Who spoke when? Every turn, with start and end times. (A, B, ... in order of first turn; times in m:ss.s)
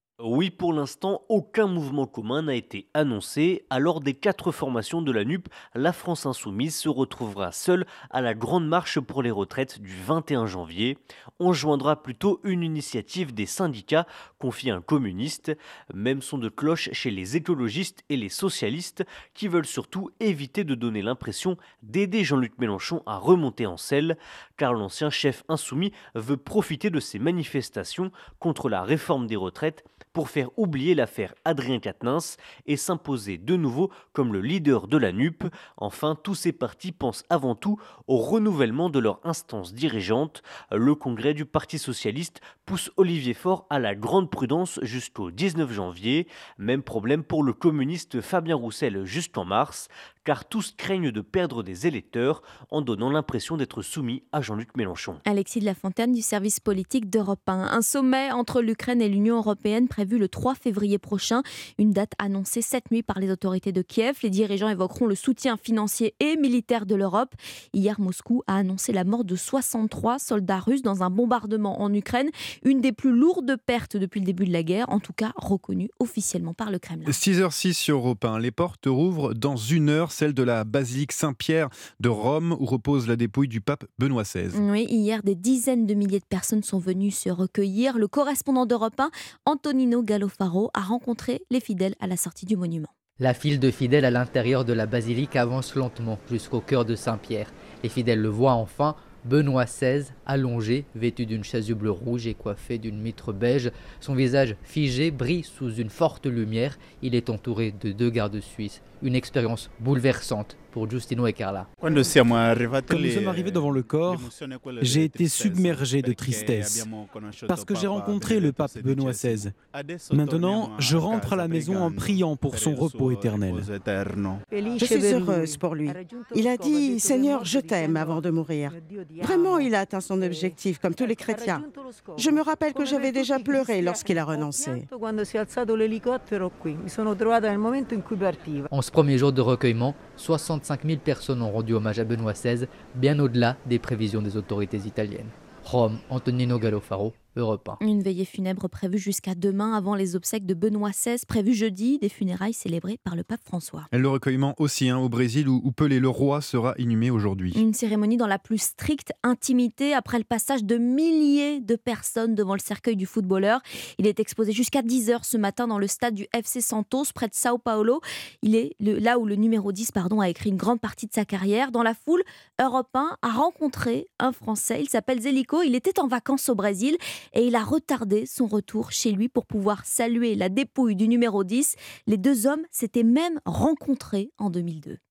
0:00.2-0:55.2 A
0:55.3-1:17.2 B
1:17.1-1:24.6 C
1:24.5-1:32.9 B
1:33.2-1:51.7 D
1:51.8-2:04.4 E
2:04.6-2:18.6 F
2:18.7-2:27.8 D
2:27.8-2:33.9 B
2:33.9-2:37.6 C
2:37.5-3:05.0 B